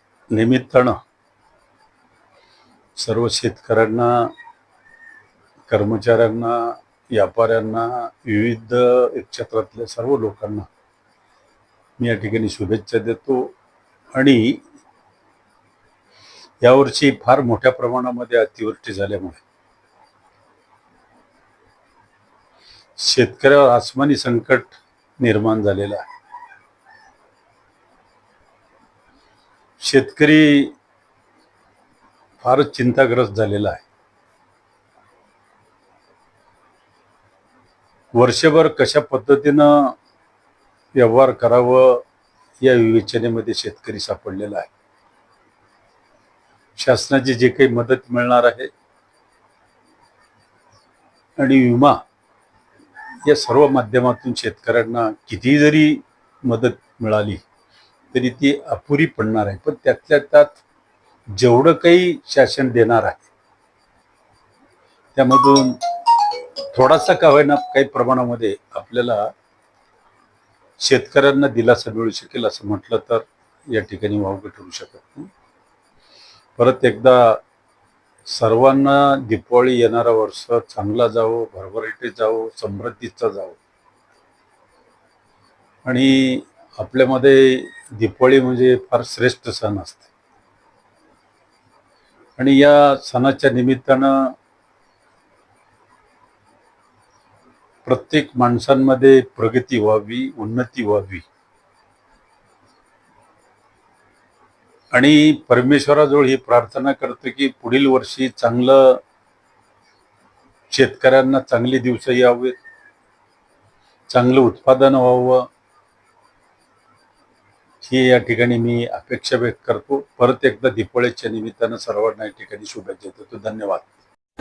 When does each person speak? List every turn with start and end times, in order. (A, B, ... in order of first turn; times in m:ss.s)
0:00.3-0:01.0 A
0:03.0-0:04.3 A
0:05.7-0:10.7 A
0:12.0-0:13.5 A
0:14.1-0:14.6 A
0:16.6-0:19.4 A
0:23.0-0:26.0 A
0:29.8-0:30.7 A
0:32.4-0:33.8 A
0:38.1-0:39.9 A
0:41.0-0:42.0 A
0:42.6-0:44.7 A
0:46.8-0:48.7 A
0:51.4-0:52.0 A
0:53.2-0:57.4 A
0:58.1-1:00.6 A
1:01.3-1:03.3 A
1:05.1-1:09.3 A
1:10.8-1:15.3 A
1:16.6-1:17.4 A
1:18.2-1:23.6 A
1:25.8-1:30.1 A
1:32.4-1:34.3 A
1:37.8-1:41.2 A
1:44.9-1:49.0 A
1:50.7-1:52.6 A
1:54.1-1:55.4 A
1:57.8-2:03.9 A